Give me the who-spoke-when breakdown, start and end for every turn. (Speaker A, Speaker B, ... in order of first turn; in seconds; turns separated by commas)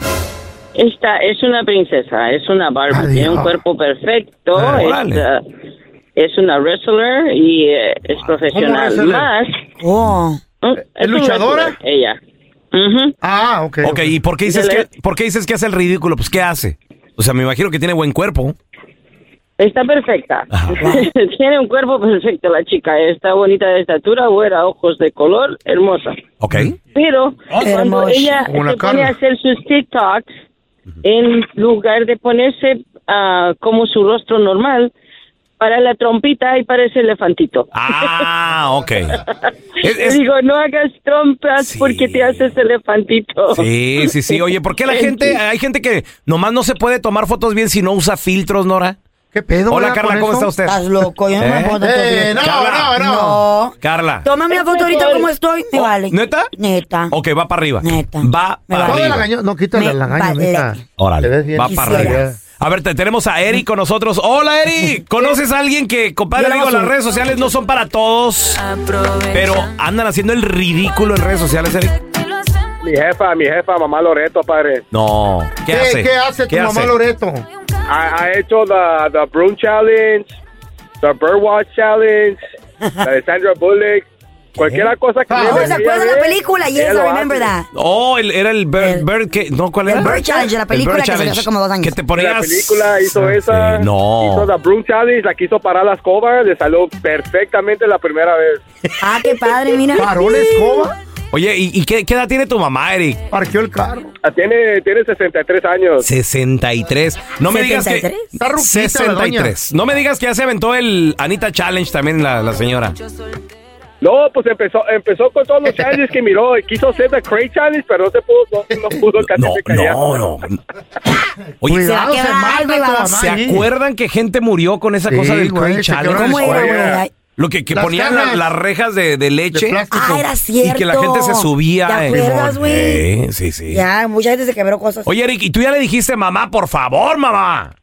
Speaker A: 0.8-5.4, Speaker B: 2.9-3.6, Speaker C: 4.5-5.2, Speaker A: 6.2-9.6, Speaker B: 8.5-9.3, Speaker D: 9.8-10.4, Speaker A: 10.6-12.2, Speaker B: 10.9-11.8, Speaker A: 12.7-13.2, Speaker B: 13.2-14.1, Speaker C: 13.8-18.6, Speaker A: 14.4-14.9, Speaker A: 19.6-26.2, Speaker C: 20.5-20.8, Speaker C: 26.4-26.8, Speaker A: 26.9-30.3, Speaker D: 27.5-28.4, Speaker B: 28.4-29.1, Speaker A: 31.0-34.9, Speaker A: 35.6-38.2, Speaker C: 37.7-39.2, Speaker A: 39.3-45.4, Speaker C: 39.8-40.2, Speaker C: 41.6-42.4, Speaker C: 43.5-49.0, Speaker B: 49.3-50.5, Speaker C: 49.7-50.8, Speaker D: 50.6-57.1, Speaker C: 51.4-51.8, Speaker B: 51.8-53.4, Speaker C: 52.4-53.0, Speaker C: 53.8-54.3, Speaker A: 54.7-55.0, Speaker C: 55.7-56.5, Speaker C: 57.1-59.2, Speaker D: 57.8-59.1, Speaker B: 58.8-62.4, Speaker D: 59.7-60.8, Speaker C: 61.0-68.6, Speaker D: 61.6-62.2, Speaker D: 66.3-66.9, Speaker C: 69.2-72.0, Speaker E: 72.8-74.8, Speaker C: 74.9-76.9, Speaker B: 75.7-77.4, Speaker E: 77.9-80.3, Speaker E: 81.0-82.4, Speaker E: 83.0-87.5, Speaker C: 84.6-84.8, Speaker B: 85.3-85.8, Speaker D: 85.4-87.7, Speaker C: 87.7-94.5, Speaker D: 88.8-89.0, Speaker D: 89.8-92.0, Speaker E: 92.1-98.6, Speaker D: 99.0-100.4, Speaker B: 100.0-100.9, Speaker C: 101.3-103.2, Speaker B: 103.3-104.1, Speaker E: 104.2-106.1, Speaker C: 106.0-113.0, Speaker D: 107.5-108.2, Speaker B: 108.4-109.5, Speaker E: 114.0-120.3, Speaker B: 118.7-119.0, Speaker C: 119.3-120.6, Speaker C: 121.6-121.9, Speaker B: 121.6-123.7, Speaker D: 121.8-123.2, Speaker C: 123.1-129.8, Speaker B: 125.1-127.0, Speaker D: 126.1-127.1, Speaker B: 127.7-128.4, Speaker B: 129.5-130.3, Speaker D: 129.9-133.0, Speaker C: 130.6-133.8, Speaker B: 132.1-132.6, Speaker D: 133.7-135.1, Speaker C: 135.1-137.7